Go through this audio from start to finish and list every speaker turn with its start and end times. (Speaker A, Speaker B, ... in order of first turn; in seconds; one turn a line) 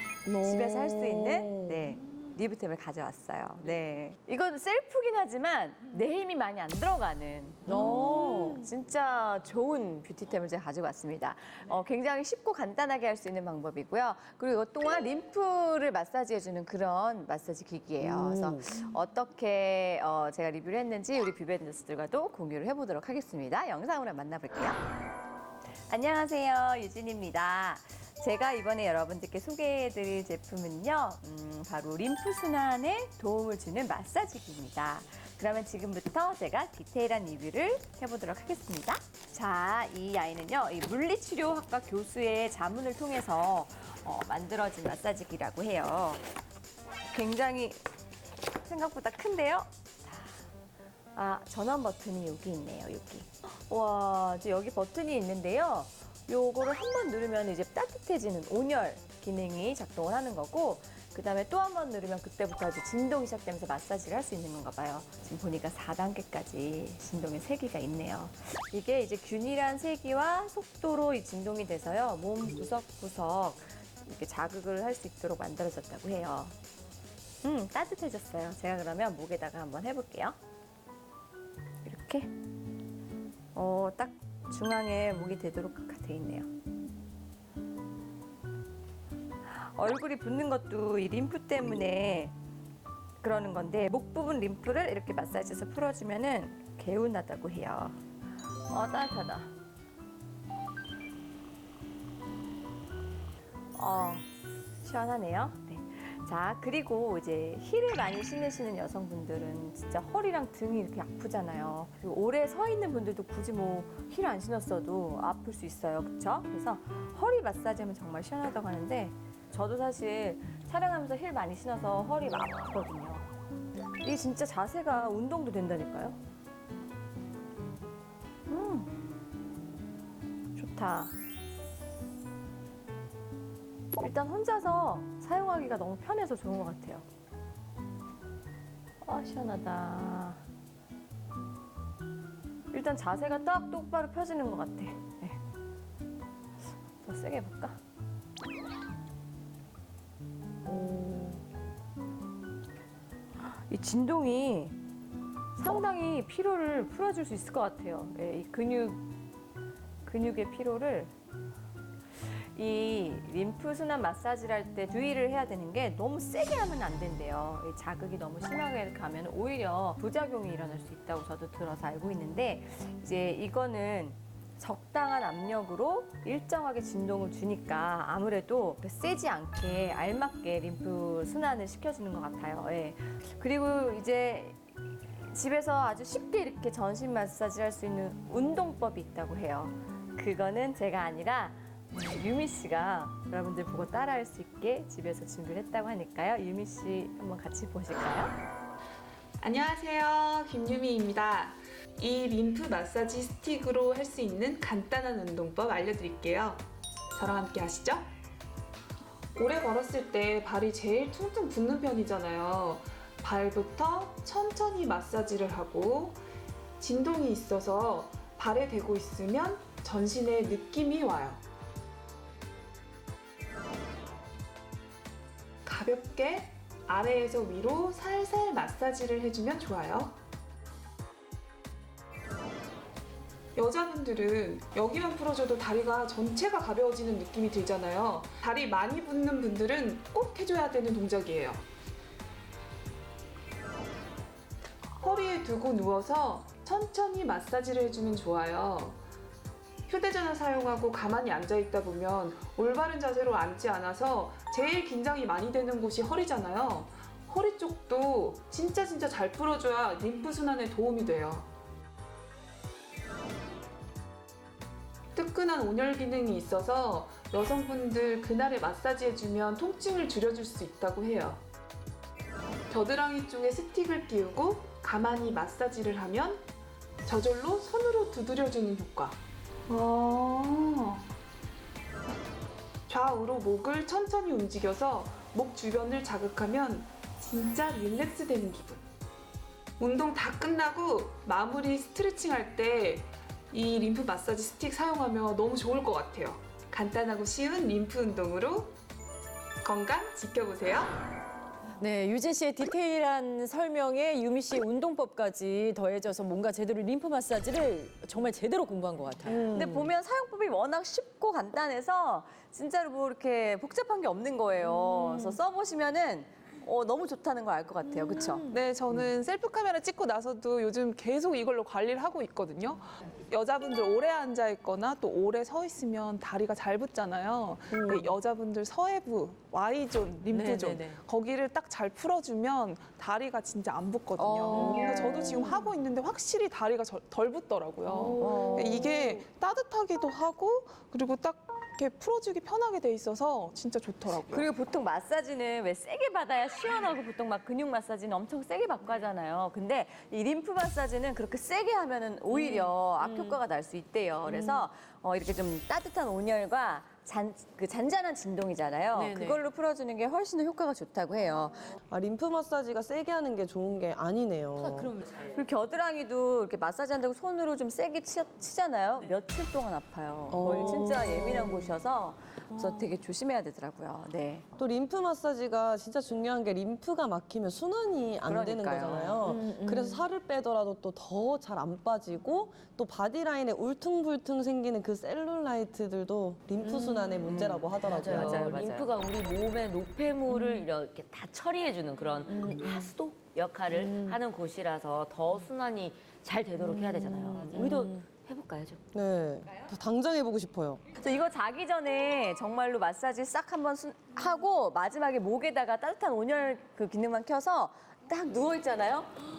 Speaker A: 0.2-1.9
Speaker B: 0.4-24.8
Speaker A: 7.7-8.6
Speaker A: 18.0-18.8
Speaker B: 25.9-46.2
Speaker B: 47.1-47.8
Speaker B: 48.6-50.4
Speaker B: 51.1-76.5
Speaker B: 77.4-80.4
Speaker B: 81.8-82.3
Speaker B: 83.5-86.5
Speaker B: 89.5-92.3
Speaker B: 93.2-98.0
Speaker B: 98.7-99.5
Speaker B: 103.7-104.3
Speaker B: 104.8-123.3
Speaker B: 124.0-126.2
Speaker B: 128.5-128.9
Speaker B: 130.5-131.1
Speaker B: 134.0-137.1
Speaker B: 139.0-140.4
Speaker B: 142.7-145.4
Speaker B: 147.0-147.8
Speaker B: 150.7-151.3
Speaker B: 153.4-154.8
Speaker B: 155.6-159.1
Speaker B: 160.0-161.1
Speaker B: 162.2-184.6
Speaker B: 185.2-198.3
Speaker C: 199.4-208.1
Speaker C: 209.3-216.2
Speaker C: 216.8-221.4
Speaker C: 225.6-230.2
Speaker C: 233.6-241.6
Speaker C: 245.0-249.0
Speaker C: 249.9-261.5
Speaker C: 265.1-271.4
Speaker C: 272.7-276.5
Speaker C: 277.0-281.1
Speaker C: 282.9-288.8
Speaker C: 289.8-298.7
Speaker C: 299.6-300.9
Speaker D: 301.8-309.7
Speaker B: 309.3-318.5
Speaker A: 309.6-309.8
Speaker D: 315.0-315.4
Speaker C: 318.5-344.5
Speaker D: 330.3-331.0
Speaker D: 334.2-335.7
Speaker A: 334.5-335.1
Speaker D: 337.9-339.1
Speaker B: 338.2-338.9
Speaker B: 344.1-361.6
Speaker D: 352.3-353.4
Speaker D: 354.3-354.7
Speaker D: 358.9-359.4
Speaker A: 361.9-365.0
Speaker B: 365.1-374.4
Speaker A: 370.3-371.7
Speaker A: 374.6-388.6
Speaker B: 378.2-379.3
Speaker D: 379.3-380.0
Speaker E: 386.6-398.8
Speaker B: 387.2-388.9
Speaker D: 390.4-390.6
Speaker D: 392.3-392.7
Speaker D: 393.9-394.2
Speaker A: 396.7-397.9
Speaker A: 398.9-400.8
Speaker B: 400.9-409.2